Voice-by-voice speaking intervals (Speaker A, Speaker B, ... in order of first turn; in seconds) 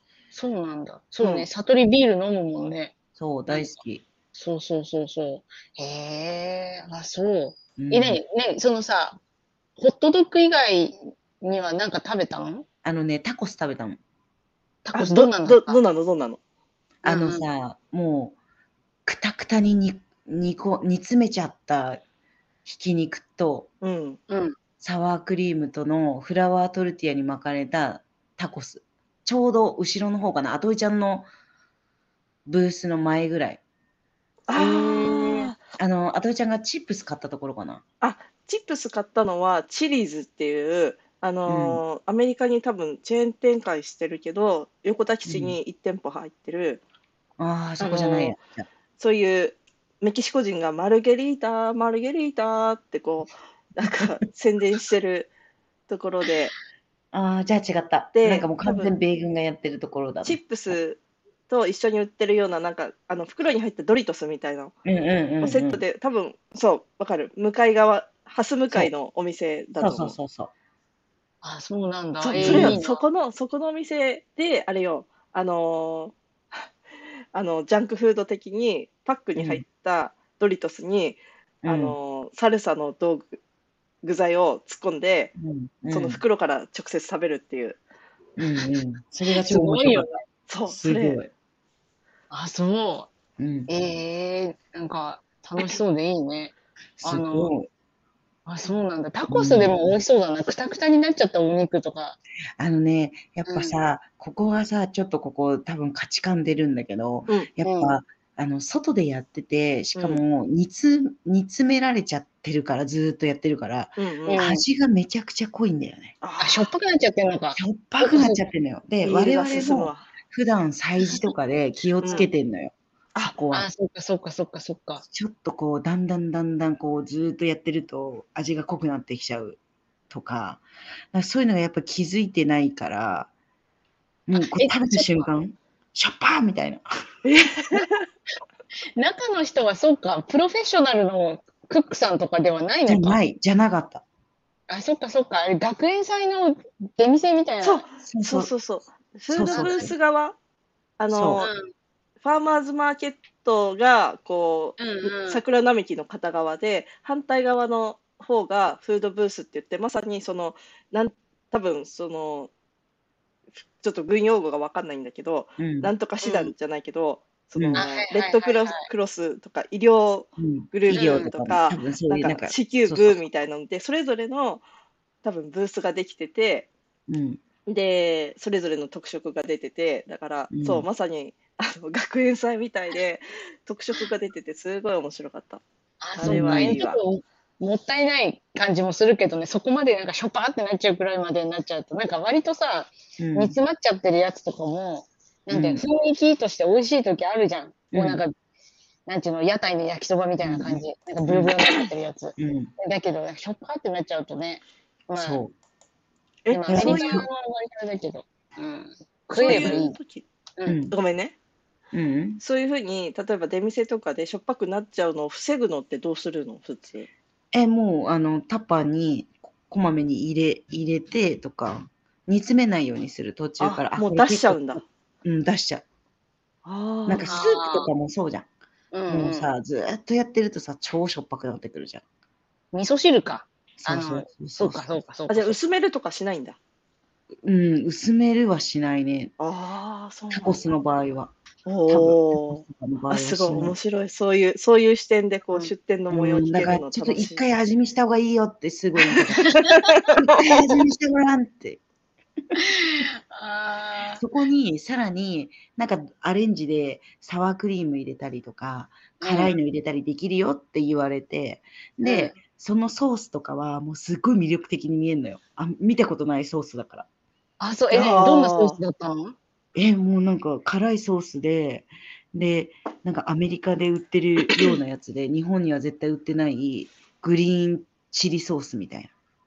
Speaker A: 0.3-2.9, 4.3-9.2, 9.8-12.6, 14.8-15.8, 17.0-17.4, 24.3-24.5, 34.5-35.5, 71.4-73.0, 89.3-90.2, 92.3-93.1, 93.7-97.5, 98.5-102.2, 103.5-103.7, 107.6-108.0, 114.3-114.6, 116.4-118.4, 123.5-125.0, 134.3-135.3, 139.0-143.2, 144.7-147.8, 149.5-149.9, 154.8-155.4, 166.2-166.5, 167.8-168.9, 170.9-171.3, 186.0-198.3, 199.1-205.4, 206.5-210.0, 227.3-227.9, 228.9-229.5, 232.7-235.6, 252.6-254.2, 259.2-259.6, 262.0-262.3, 267.6-269.4
Speaker B: 1.2-1.5, 14.9-16.4, 23.8-24.2, 34.5-35.6, 38.0-46.8, 47.8-48.3, 49.0-55.3, 55.9-56.5, 58.1-58.9, 60.2-64.7, 65.4-70.2, 72.2-76.7, 77.3-83.4, 84.0-85.3, 85.9-87.8, 90.5-91.2, 109.9-110.2, 114.0-114.4, 116.2-116.7, 119.0-120.1, 122.0-122.3, 137.2-138.1, 147.6-150.3, 151.0-151.5, 152.2-162.5, 163.8-174.6, 175.2-176.7, 177.7-185.6, 186.1-187.0, 206.4-207.2, 209.3-210.2, 210.9-211.3, 212.4-217.1, 223.6-224.8, 226.6-227.3, 235.3-236.6, 239.4-240.6, 241.7-247.4, 249.4-250.6, 267.9-268.8
Speaker C: 3.1-4.0, 7.8-8.2, 12.8-14.0, 17.0-18.4, 19.1-22.0, 22.6-23.7, 24.8-31.3, 32.5-33.6, 35.7-37.8, 41.5-41.8, 45.2-45.6, 47.4-48.7, 57.1-60.7, 64.8-65.8, 69.8-70.5, 72.3-72.8, 79.3-79.6, 81.6-82.0, 85.4-86.2, 88.4-90.1, 90.7-91.3, 93.4-93.7, 97.0-97.7, 99.3-99.9, 102.6-116.2, 117.5-123.7, 125.1-129.6, 130.1-133.3, 134.3-136.8, 142.9-144.0, 148.0-148.5, 149.3-149.9, 151.1-151.4, 165.6-165.9, 167.6-167.8, 170.4-173.2, 177.1-177.4, 180.5-180.8, 186.2-186.8, 193.2-193.6, 195.5-195.8, 197.9-198.2, 200.4-201.5, 202.4-202.7, 205.2-205.5, 206.7-207.3, 209.4-209.8, 210.7-210.9, 211.9-212.4, 217.5-225.8, 227.1-228.5, 229.1-232.0, 233.8-235.0, 237.4-239.3, 240.3-241.3, 241.9-243.7, 246.1-249.6, 250.2-251.8, 254.2-267.1, 269.7-279.1